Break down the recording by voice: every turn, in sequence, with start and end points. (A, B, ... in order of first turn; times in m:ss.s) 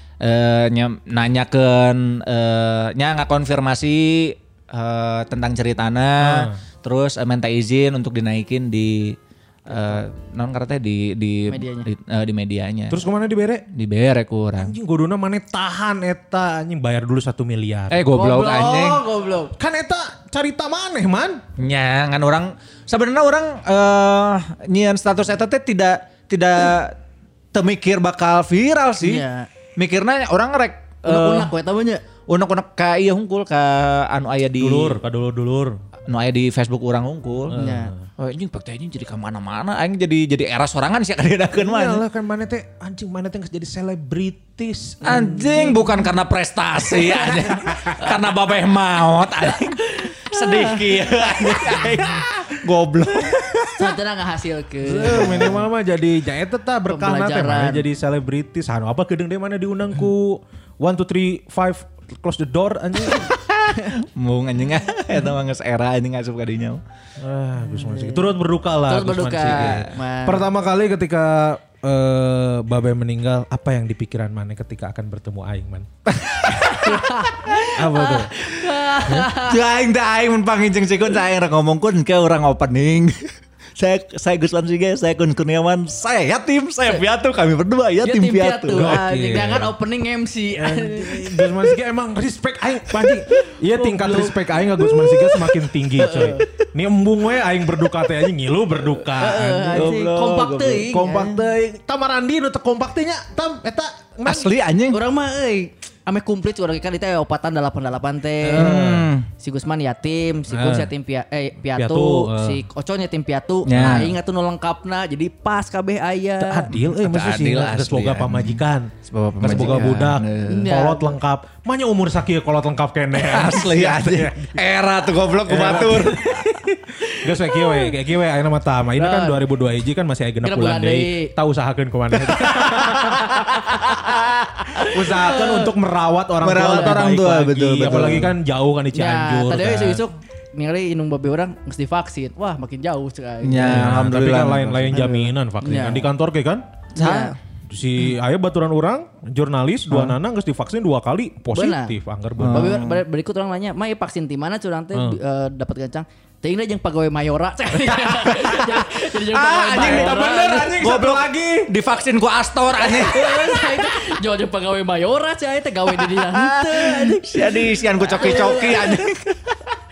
0:00.2-0:09.2 A
0:06.2-0:06.6 B
0:09.7-0:13.0 A
0:11.5-0:11.9 C
0:12.9-0:13.6 B
0:13.7-0:14.7 A
0:14.6-0:18.1 B
0:17.9-0:19.0 A
0:18.1-0:19.5 C
0:19.6-0:21.4 B
0:21.6-0:27.0 A
0:27.5-0:29.2 A
0:29.0-0:29.5 C
0:29.8-0:31.5 A
0:31.0-0:32.0 C
0:32.3-0:35.0 A
0:34.6-0:35.8 B
0:36.1-0:37.6 A
0:37.5-0:38.1 B
0:37.5-0:37.9 C
0:38.2-0:42.0 A
0:41.6-0:45.6 B
0:45.0-0:53.9 A
0:45.0-0:46.0 C
0:49.8-0:51.9 C
0:53.8-0:55.6 C
0:54.8-1:03.3 B
0:55.0-0:55.6 A
0:56.9-0:57.8 C
1:03.1-1:06.8 A
1:07.2-1:15.9 B
1:07.6-1:10.5 C
1:09.4-1:09.9 A
1:16.1-1:17.6 A
1:16.6-1:19.6 C
1:17.7-1:18.3 B
1:19.3-1:29.0 A
1:28.0-1:31.5 C
1:28.7-1:29.7 B
1:30.6-1:40.1 B
1:33.3-1:35.3 C
1:35.9-1:36.4 C
1:39.0-1:41.4 C
1:39.7-1:40.8 A
1:40.6-1:44.5 B
1:44.2-1:45.0 A
1:44.9-1:48.8 C
1:48.4-1:49.1 B
1:48.6-1:49.3 A
1:49.4-1:56.7 C
1:50.5-1:50.9 B
1:51.8-1:52.6 B
1:53.6-1:54.2 A
1:56.4-2:04.6 B
1:56.7-2:00.7 A
2:00.4-2:01.2 C
2:03.1-2:06.3 A
2:05.5-2:13.4 B
2:07.4-2:07.9 C
2:09.0-2:09.4 C
2:10.4-2:11.3 C
2:12.4-2:14.2 C
2:13.9-2:14.4 A
2:14.7-2:15.7 C
2:14.8-2:20.0 B
2:16.4-2:18.3 A
2:16.7-2:16.9 C
2:18.9-2:24.0 C
2:23.4-2:25.1 A
2:23.7-2:26.6 B
2:24.9-2:26.1 C
2:27.0-2:27.3 C
2:27.0-2:27.4 A
2:27.7-2:32.8 B
2:29.9-2:30.2 A
2:31.5-2:32.0 C
2:32.4-2:33.0 A
2:32.5-2:40.7 C
2:38.4-2:43.9 A
2:39.7-2:41.7 B
2:42.8-2:49.0 C
2:45.9-2:49.6 A